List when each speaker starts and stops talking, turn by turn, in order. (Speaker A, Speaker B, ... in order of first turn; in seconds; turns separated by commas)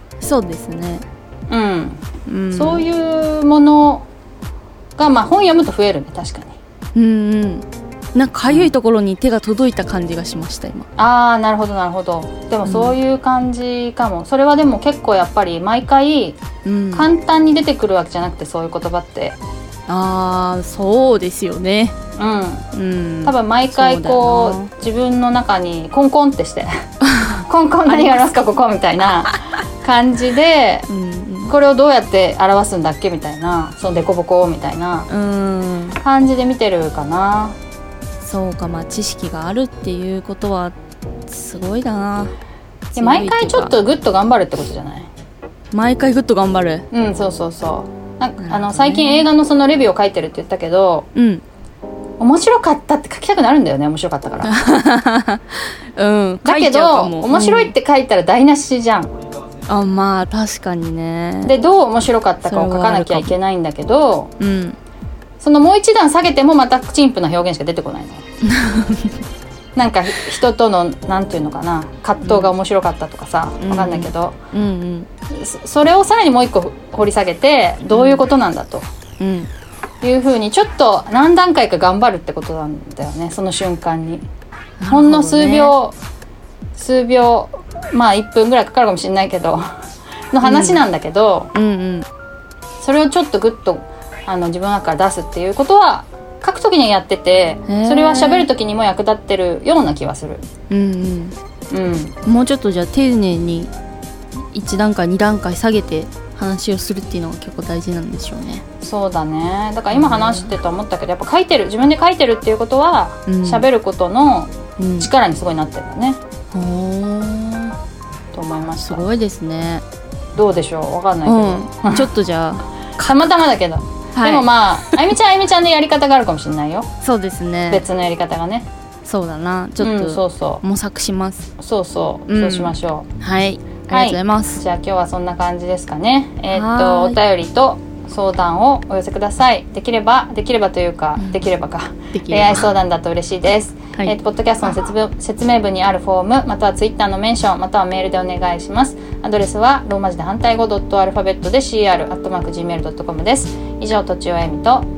Speaker A: 0.2-1.1, Speaker B: 1.5-4.1, Speaker A: 2.3-2.8, Speaker B: 5.0-6.6, Speaker A: 7.0-10.9, Speaker B: 11.0-16.4, Speaker A: 12.7-13.0, Speaker A: 16.6-17.1, Speaker B: 16.9-19.4, Speaker A: 19.9-21.9, Speaker B: 22.2-22.7, Speaker A: 22.7-24.7, Speaker B: 23.2-26.7, Speaker A: 27.1-28.3, Speaker B: 27.4-30.9, Speaker A: 30.9-31.5, Speaker B: 31.5-35.1, Speaker A: 35.1-36.0, Speaker B: 36.0-37.6, Speaker A: 38.2-40.8, Speaker A: 41.3-42.3, Speaker A: 42.9-43.8, Speaker B: 43.0-45.1, Speaker A: 45.7-46.9, Speaker B: 46.9-51.1, Speaker A: 48.4-49.3, Speaker A: 51.1-51.4, Speaker B: 52.2-54.6, Speaker A: 54.4-57.7, Speaker B: 56.4-59.1, Speaker A: 59.7-61.5, Speaker B: 61.4-64.3, Speaker A: 62.5-63.3, Speaker A: 64.4-64.8, Speaker B: 65.4-68.2, Speaker A: 68.6-69.1, Speaker B: 69.8-74.4, Speaker A: 72.2-72.5, Speaker A: 73.6-75.1, Speaker B: 75.3-78.9, Speaker A: 77.9-78.2, Speaker A: 79.2-79.5, Speaker B: 80.0-84.3, Speaker A: 84.8-85.8, Speaker B: 84.9-86.0, Speaker B: 86.8-89.7, Speaker B: 90.3-91.5, Speaker A: 90.4-90.8, Speaker A: 91.5-92.1, Speaker B: 92.8-100.4, Speaker A: 97.7-98.5, Speaker A: 100.7-101.4, Speaker B: 101.7-102.2, Speaker A: 102.2-103.7, Speaker A: 104.5-108.6, Speaker B: 108.8-116.2, Speaker A: 109.9-110.5, Speaker A: 113.3-113.7, Speaker A: 114.8-115.1, Speaker A: 116.5-117.8, Speaker B: 118.3-119.0, Speaker A: 118.8-119.8, Speaker B: 120.3-122.1, Speaker A: 121.2-123.4, Speaker B: 123.0-126.9, Speaker A: 124.2-125.1, Speaker A: 127.0-127.8, Speaker B: 127.7-128.7, Speaker A: 129.1-131.5, Speaker B: 129.8-130.6, Speaker B: 131.6-133.1, Speaker A: 132.3-134.6, Speaker B: 133.9-154.9, Speaker A: 136.5-137.2, Speaker A: 142.1-142.7